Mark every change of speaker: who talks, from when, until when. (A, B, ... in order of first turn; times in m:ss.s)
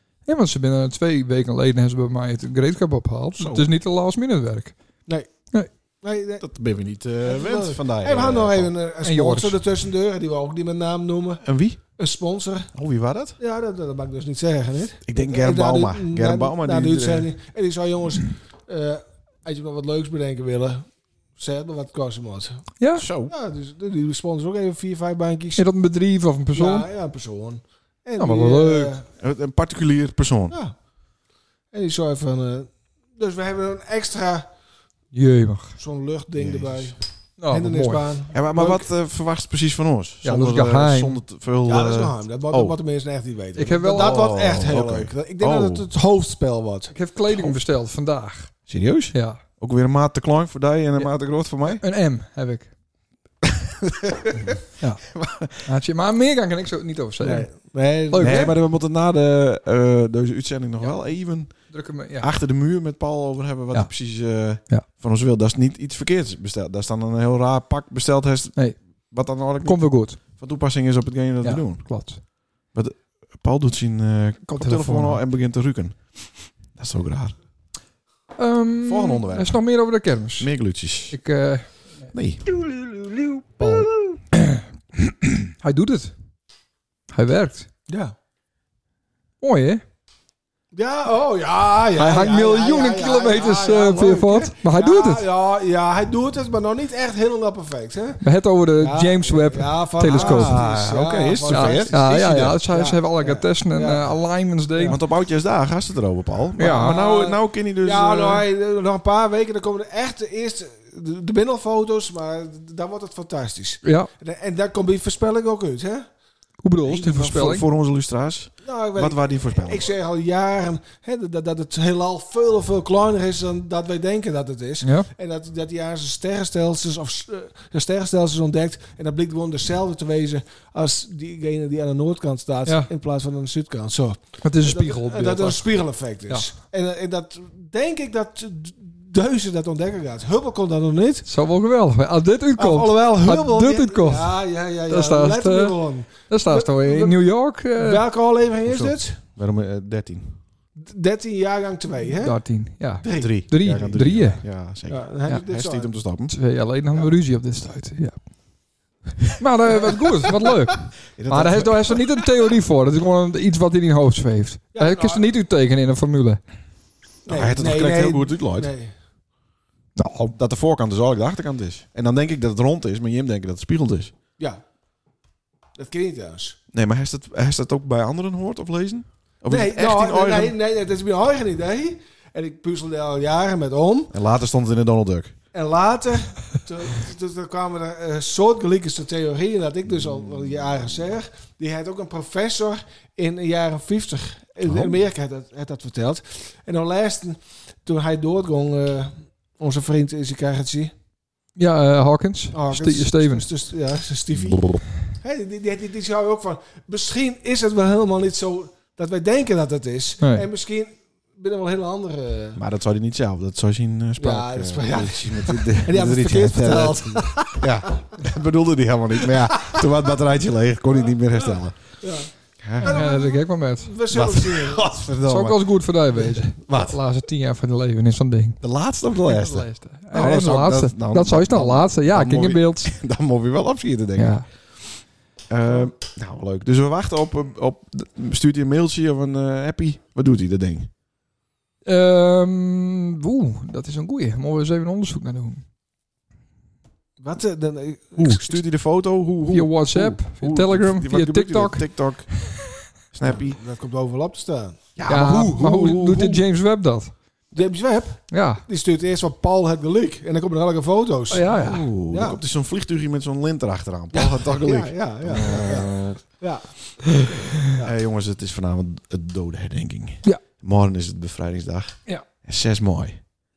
0:00.2-0:04.8 A
0:03.4-0:03.7 B
0:05.1-0:05.3 C
0:06.0-0:06.4 C
0:06.4-0:08.7 B
0:07.2-0:12.7 C
0:09.0-0:09.6 A
0:11.4-0:11.8 B
0:12.7-0:13.4 B
0:13.4-0:22.6 C
0:15.0-0:17.3 B
0:22.8-0:23.1 A
0:23.0-0:23.3 B
0:23.2-0:25.7 C
0:25.6-0:26.9 A
0:26.5-0:29.1 C
0:28.2-0:28.9 A
0:29.2-0:30.6 B
0:31.7-0:34.5 C
0:35.1-0:35.8 A
0:35.8-0:37.0 C
0:36.4-0:37.0 B
0:37.4-0:38.1 A
0:37.5-0:38.9 C
0:38.3-0:42.8 B
0:40.2-0:41.2 A
0:41.6-0:46.9 C
0:43.6-0:44.2 A
0:43.8-0:45.9 B
0:46.9-0:48.6 A
0:48.7-0:51.8 B
0:49.1-0:49.4 A
0:51.0-0:52.7 A
0:53.4-0:54.6 B
0:54.8-0:55.1 A
0:55.1-0:55.7 B
0:55.6-0:58.5 A
0:57.2-0:58.6 C
0:58.2-1:17.4 B
1:00.8-1:02.3 A
1:08.6-1:10.2 A
1:11.4-1:12.2 A
1:14.5-1:15.2 A
1:18.4-1:20.5 A
1:18.8-1:19.6 B
1:20.4-1:21.2 B
1:21.1-1:22.1 A
1:22.1-1:22.4 B
1:23.6-1:24.6 A
1:25.6-1:26.1 A
1:27.1-1:27.7 A
1:27.9-1:28.1 C
1:29.4-1:29.8 A
1:30.7-1:38.2 C
1:32.0-1:35.3 A
1:38.2-1:40.6 A
1:38.8-1:44.2 C
1:40.0-1:42.6 B
1:41.5-1:45.0 A
1:44.9-1:48.5 B
1:46.6-1:47.0 A
1:46.8-1:56.1 C
1:53.8-1:54.1 A
1:56.6-1:57.7 A
1:56.8-1:59.9 B
1:58.6-2:21.3 C
2:04.8-2:05.1 A
2:14.4-2:15.6 A
2:21.3-2:28.0 A
2:22.6-2:29.2 C
2:28.7-2:30.4 B
2:30.8-2:34.4 C
2:32.2-2:34.5 A
2:33.1-2:36.4 B
2:34.9-2:35.9 C
2:36.3-2:38.7 A
2:39.4-2:46.4 A
2:41.1-2:42.1 B
2:44.7-2:45.3 C
2:47.3-2:48.9 C
2:47.3-2:48.7 B
2:50.0-2:50.3 A
2:50.3-2:54.1 B
2:55.8-2:56.6 C
2:56.7-3:00.6 B
2:59.5-3:04.1 C
3:04.1-3:05.4 B
3:05.5-3:20.9 C
3:14.6-3:14.9 B
3:21.6-3:23.5 A
3:22.5-3:32.6 C
3:24.5-3:24.8 B
3:30.2-3:30.5 A
3:32.6-3:43.0 B
3:34.2-3:38.1 C
3:41.0-3:44.9 C
3:42.8-3:43.9 A
3:44.1-3:47.0 B
3:45.3-3:48.6 A
3:48.6-4:00.9 B
3:49.2-3:52.9 A
3:54.2-3:54.5 A
4:01.9-4:05.6 A
4:07.2-4:08.6 C
4:08.2-4:13.6 B
4:09.5-4:12.7 A
4:13.2-4:14.8 C
4:15.0-4:16.4 B
4:15.1-4:17.1 A
4:17.5-4:21.6 C
4:18.3-4:18.6 A
4:21.3-4:21.9 A
4:21.5-4:26.2 B
4:22.1-4:22.4 C
4:24.1-4:27.9 C
4:27.8-4:33.4 B